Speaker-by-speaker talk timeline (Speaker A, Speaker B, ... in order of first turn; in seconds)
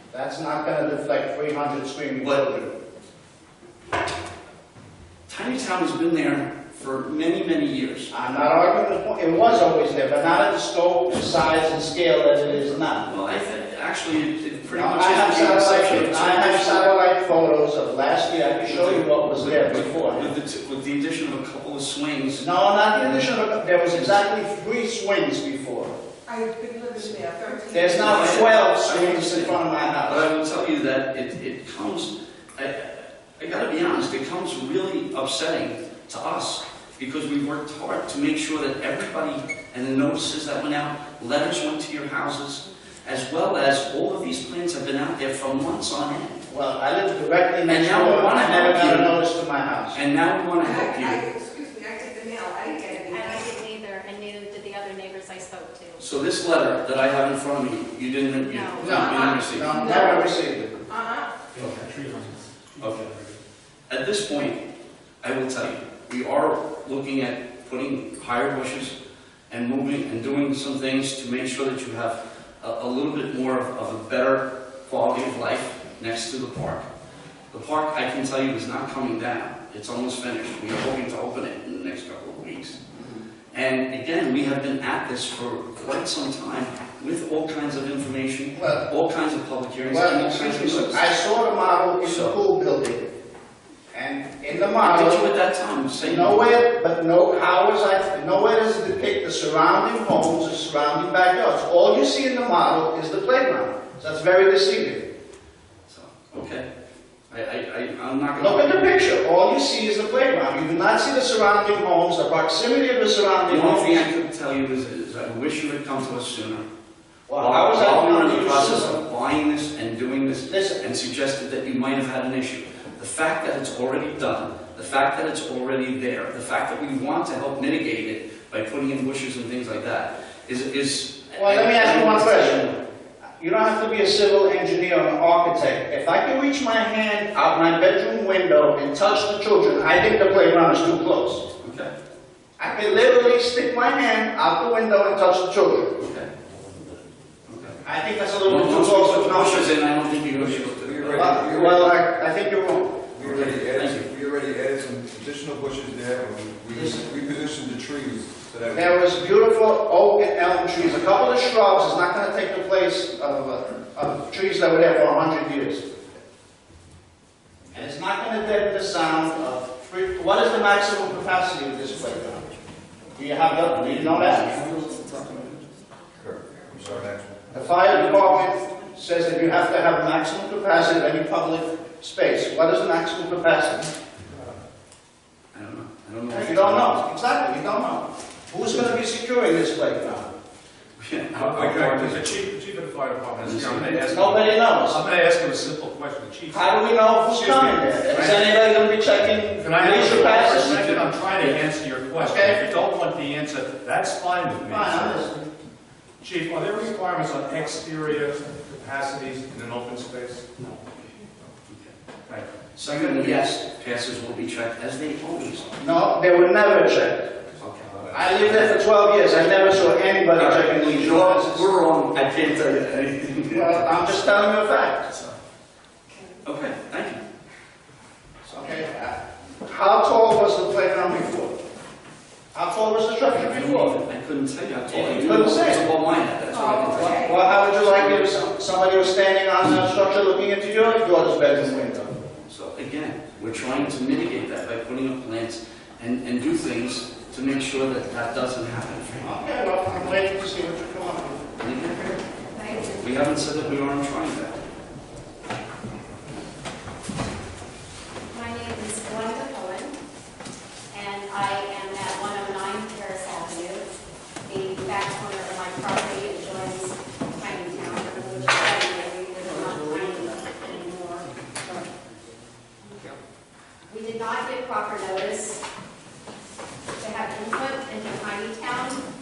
Speaker A: 0.1-2.7, 8.1-13.1, 14.7-20.3, 22.4-25.9, 27.7-30.2, 46.5-50.0, 58.8-60.7, 82.9-83.2, 88.5-88.8, 89.8-93.0, 93.9-95.3, 96.0-105.0, 108.4-114.0, 117.3-119.0, 120.5-120.8, 131.3-132.6, 133.4-141.4, 142.6-145.9, 147.8-149.7, 151.1-153.1, 156.7-157.1, 158.7-165.9, 167.7-172.4, 173.2-174.5, 177.5-183.9, 186.3-190.3, 194.0-195.0, 196.5-201.0, 202.2-202.6, 204.7-205.3, 212.8-213.6, 215.8-217.2, 218.1-221.7, 223.5-225.1, 228.4-231.5, 232.5-233.9, 234.9-235.8, 236.9-242.1, 249.2-251.4
Speaker B: 5.3-8.3, 13.0-16.9, 18.6-22.4, 27.9-46.4, 47.6-49.2, 49.9-51.2, 56.0-59.7, 62.8-63.1, 63.9-64.6, 65.2-68.9, 69.5-76.8, 77.5-82.8, 83.5-91.1, 92.0-92.3, 94.8-96.5, 105.9-106.7, 107.3-108.9, 113.5-116.6, 117.3-132.8, 141.6-141.9, 146.0-146.3, 147.5-147.8, 148.4-151.4, 153.2-154.1, 173.6-175.6, 177.9-178.2, 185.5-187.0, 191.0-192.3, 193.4-193.9, 211.7-215.7, 217.6-218.7, 220.3-224.2, 225.1-225.3, 226.4-227.2, 233.4-238.3, 242.5-249.3, 251.6-252.2, 253.0-254.6
Speaker C: 26.3-28.2, 50.6-53.5, 59.6-60.3, 60.9-61.3, 236.5-237.3
Speaker D: 53.1-56.0, 58.4-59.5, 252.5-253.1, 258.3-260.0, 260.9-263.9, 264.4-271.9, 273.9-275.6, 277.0-279.0
Speaker E: 61.5-63.3, 191.3-198.5, 199.6-205.4, 206.2-210.7
Speaker F: 150.3-152.0, 153.1-159.0, 176.2-177.3